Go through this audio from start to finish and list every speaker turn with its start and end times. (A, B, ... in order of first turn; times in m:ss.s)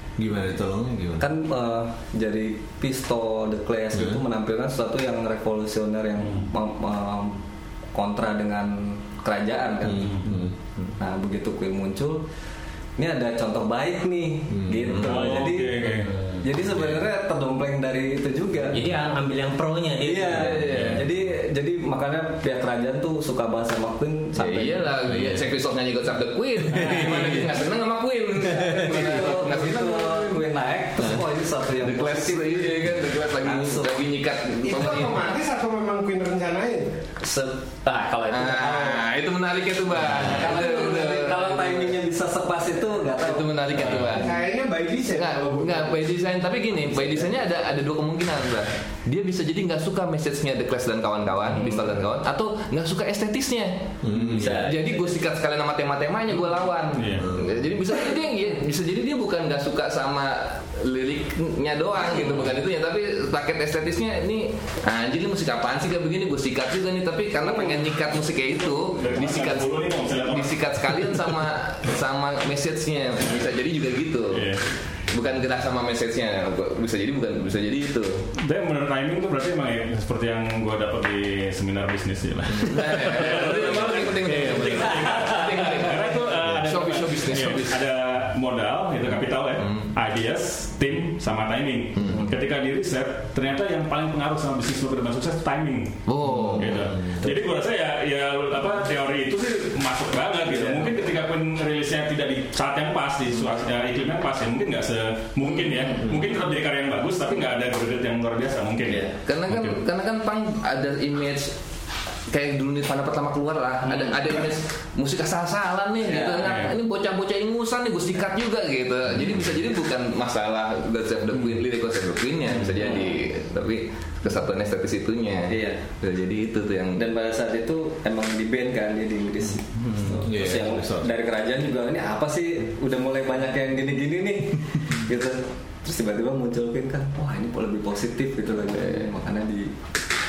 0:00.2-0:01.3 A
0:01.2-0:07.4 B
0:03.9-0:04.2 A
0:08.0-0:10.2 B
0:09.9-0:10.5 A
0:09.9-0:10.3 C
0:11.0-0:12.2 B
0:13.0-0:18.8 B
0:14.5-0:15.0 A
0:14.9-0:16.1 C
0:15.9-0:16.4 D
0:18.7-0:20.9 D
0:20.0-0:24.9 B
0:24.4-0:30.4 E
0:26.7-0:27.3 A
0:28.5-0:34.0 B
0:31.8-0:35.4 E
0:34.6-0:36.9 F
0:37.2-0:39.0 B
0:38.3-0:42.0 E
0:40.2-0:44.4 B
0:43.2-0:44.4 E
0:44.2-0:46.0 F
0:45.1-1:14.5 E
0:47.0-0:47.3 B
0:51.6-0:51.9 B
0:54.0-0:54.6 A
0:54.1-0:55.1 B
0:57.0-0:57.3 C
0:57.2-0:57.6 A
1:07.4-1:07.8 B
1:09.0-1:11.3 C
1:14.3-1:14.6 C
1:15.1-1:18.3 E
1:18.4-1:36.0 C
1:22.5-1:27.8 E
1:29.6-1:29.9 E
1:32.0-1:32.3 E
1:36.1-1:36.9 E
1:36.3-1:37.3 A
1:36.6-1:49.8 C
1:40.6-1:40.9 B
1:49.2-1:51.6 E
1:52.3-2:07.0 E
1:56.0-1:56.6 B
1:56.4-1:56.7 C
2:02.8-2:03.2 B
2:05.5-2:05.8 B
2:07.0-2:19.7 B
2:09.8-2:10.2 E
2:10.2-2:11.1 A
2:18.8-2:19.1 E